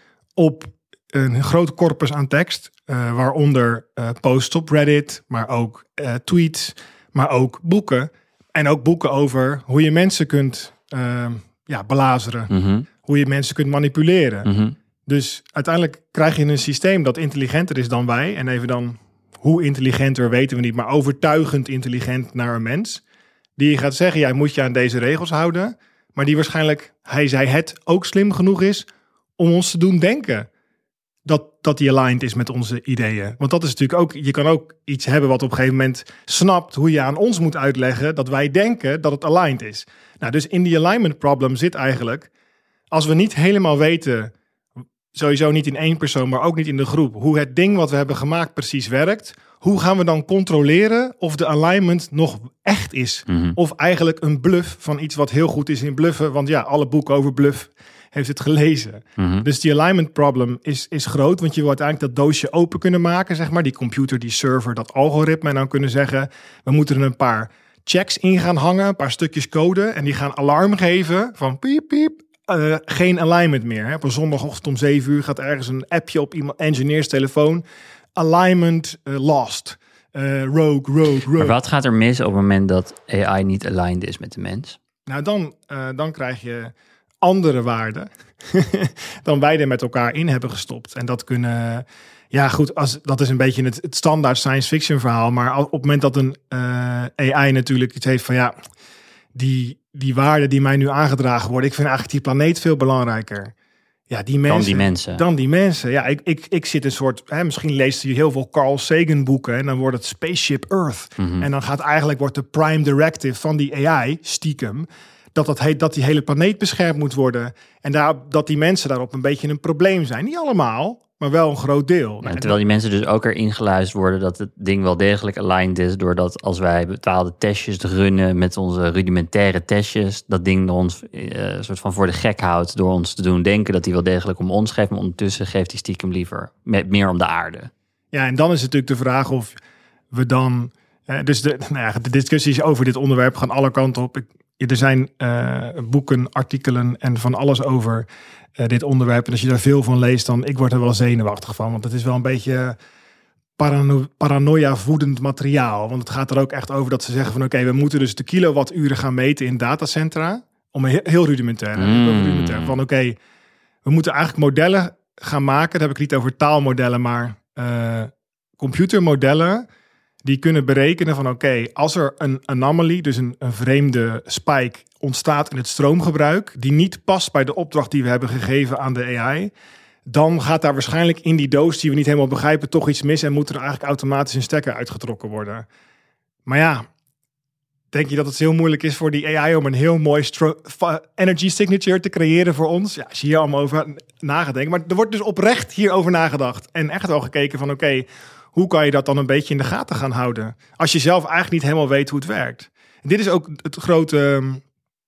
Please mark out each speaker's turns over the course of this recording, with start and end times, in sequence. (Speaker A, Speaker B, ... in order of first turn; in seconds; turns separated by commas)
Speaker A: 0.4-12.5, Speaker B: 12.5-12.9, Speaker A: 13.0-14.5, Speaker B: 14.4-14.8, Speaker A: 15.1-23.0, Speaker A: 23.6-28.9, Speaker A: 29.4-30.5, Speaker A: 31.2-42.3, Speaker A: 42.9-44.3, Speaker A: 45.1-77.6, Speaker B: 53.3-53.6, Speaker B: 59.2-59.5, Speaker A: 78.2-81.6, Speaker B: 81.3-84.8, Speaker A: 85.1-98.5, Speaker A: 99.3-103.5, Speaker A: 104.1-122.6, Speaker B: 104.5-105.2, Speaker B: 111.2-111.5, Speaker B: 122.2-137.7, Speaker A: 138.1-139.6, Speaker A: 140.1-152.8, Speaker A: 153.6-163.2, Speaker B: 161.8-162.8, Speaker A: 163.8-169.7, Speaker A: 170.2-179.5, Speaker A: 180.1-185.7, Speaker A: 186.4-186.9, Speaker A: 187.9-204.6